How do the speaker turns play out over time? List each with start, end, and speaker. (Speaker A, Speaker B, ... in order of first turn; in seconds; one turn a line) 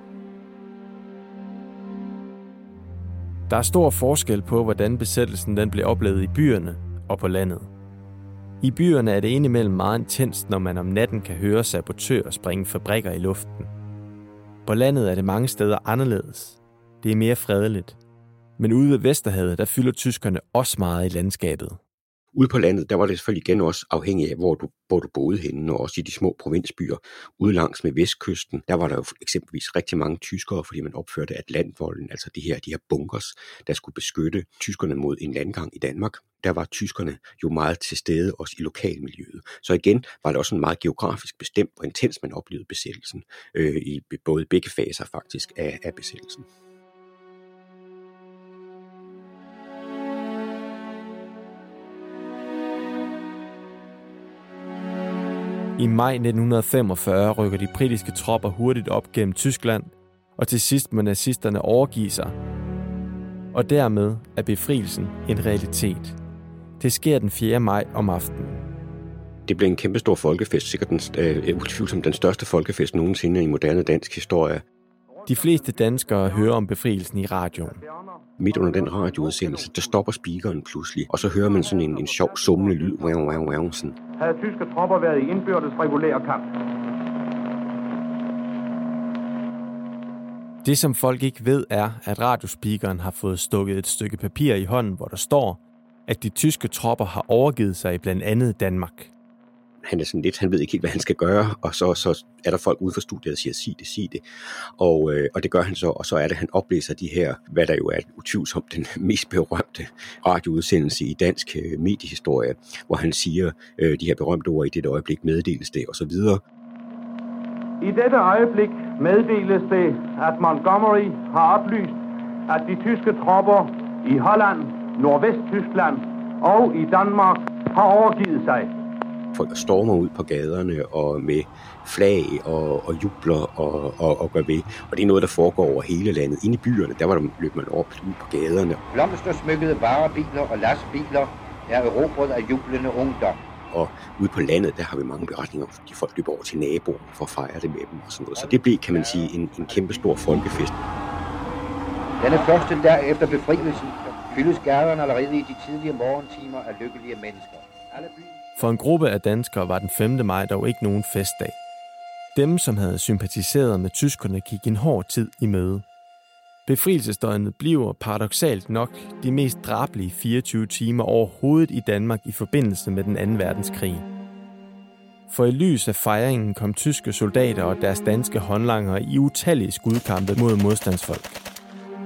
Speaker A: 3.5-7.7
Speaker A: 8.6-13.7
Speaker A: 14.6-18.0
Speaker A: 18.6-21.8
Speaker B: 22.3-46.4
Speaker A: 55.8-62.4
Speaker A: 63.5-66.2
Speaker A: 66.8-68.6
Speaker B: 69.5-74.6
Speaker A: 75.3-77.8
Speaker B: 78.4-84.0
Speaker C: 84.2-86.5
Speaker A: 90.6-99.1
Speaker B: 99.8-104.2
Speaker B: 104.8-116.4
Speaker C: 117.8-122.0
Speaker C: 122.5-128.7
Speaker B: 129.3-138.8
Speaker D: 138.9-143.4
Speaker B: 143.7-150.7
Speaker D: 148.3-150.6
Speaker D: 152.2-158.3
Speaker A: 158.6-161.6
Speaker A: 162.3-165.8
Speaker A: 166.7-174.1
Speaker A: 175.3-181.4